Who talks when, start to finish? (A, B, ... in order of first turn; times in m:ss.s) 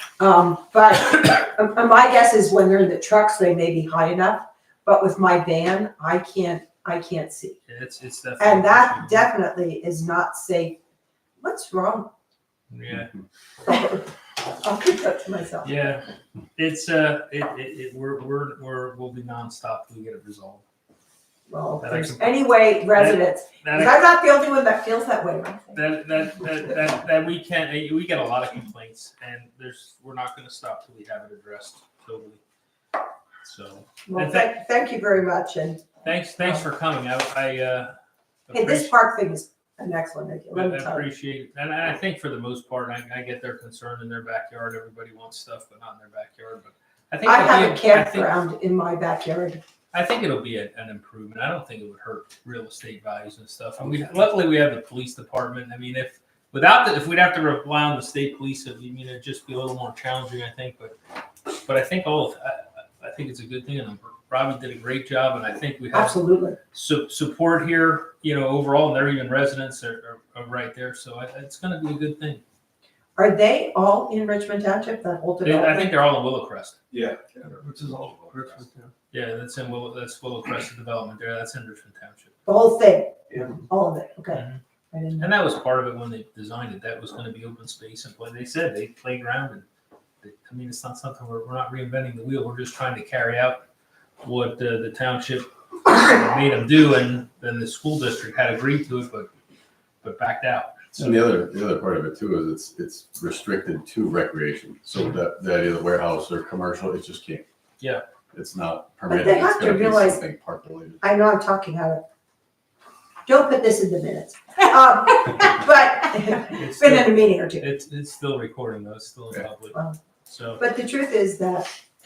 0:00.2-0:07.6 A
0:07.7-0:09.3 B
0:08.4-0:10.8 A
0:11.4-0:12.1 A
0:12.7-0:13.1 B
0:13.6-0:14.1 A
0:14.6-0:15.8 A
0:15.6-0:16.0 B
0:16.6-0:20.6 B
0:21.5-0:25.8 A
0:21.8-0:24.0 B
0:25.7-0:32.4 B
0:33.4-0:34.5 B
0:34.1-0:35.9 A
0:36.0-0:37.9 B
0:38.5-0:38.9 B
0:38.5-0:41.1 A
0:40.5-0:48.3 B
0:47.2-0:49.6 A
0:49.9-1:01.0 B
1:01.6-1:12.4 B
1:05.9-1:06.6 A
1:13.2-1:16.0 A
1:15.4-1:16.8 B
1:19.1-1:22.4 B
1:22.5-1:25.3 A
1:24.3-1:24.6 B
1:25.2-1:29.6 B
1:30.2-1:33.6 B
1:34.2-1:39.3 B
1:40.0-1:41.0 B
1:41.0-1:47.4 C
1:48.3-1:51.0 C
1:49.1-1:50.2 A
1:51.0-1:52.0 A
1:53.3-1:57.7 A
1:56.5-1:59.8 B
2:00.3-2:00.6 B
2:00.6-2:01.7 A